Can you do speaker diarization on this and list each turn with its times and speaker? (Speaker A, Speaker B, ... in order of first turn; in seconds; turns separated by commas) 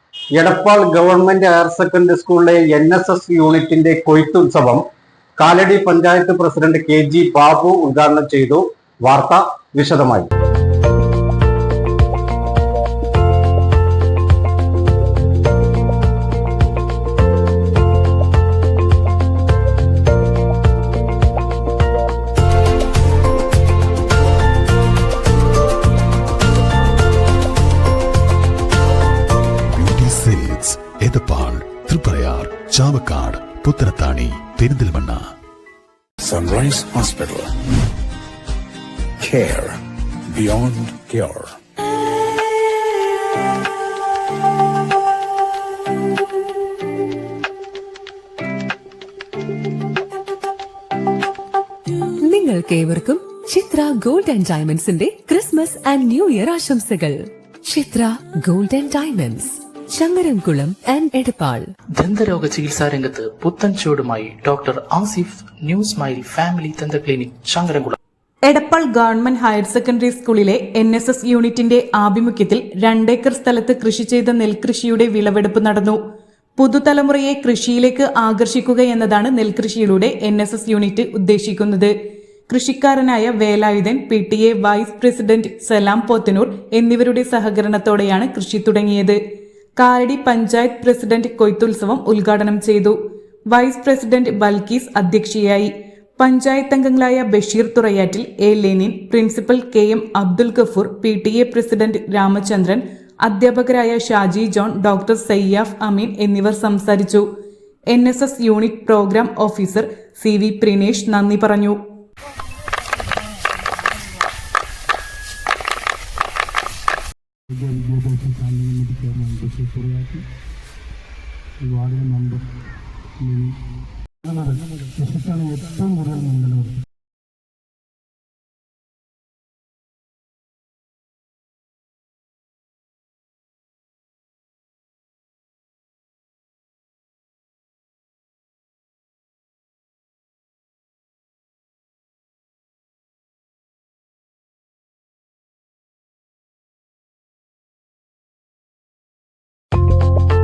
Speaker A: 0.3-4.8, Speaker A: 5.4-10.3, Speaker B: 29.7-35.2, Speaker C: 36.2-37.5, Speaker C: 39.2-41.6, Speaker D: 52.2-61.7, Speaker E: 62.0-68.0, Speaker F: 68.4-76.0, Speaker F: 76.6-81.9, Speaker F: 82.5-89.2, Speaker F: 89.8-93.0, Speaker F: 93.5-107.2, Speaker F: 107.9-111.8, Speaker G: 117.6-120.2, Speaker G: 121.6-122.5, Speaker G: 123.2-123.6, Speaker G: 125.0-126.8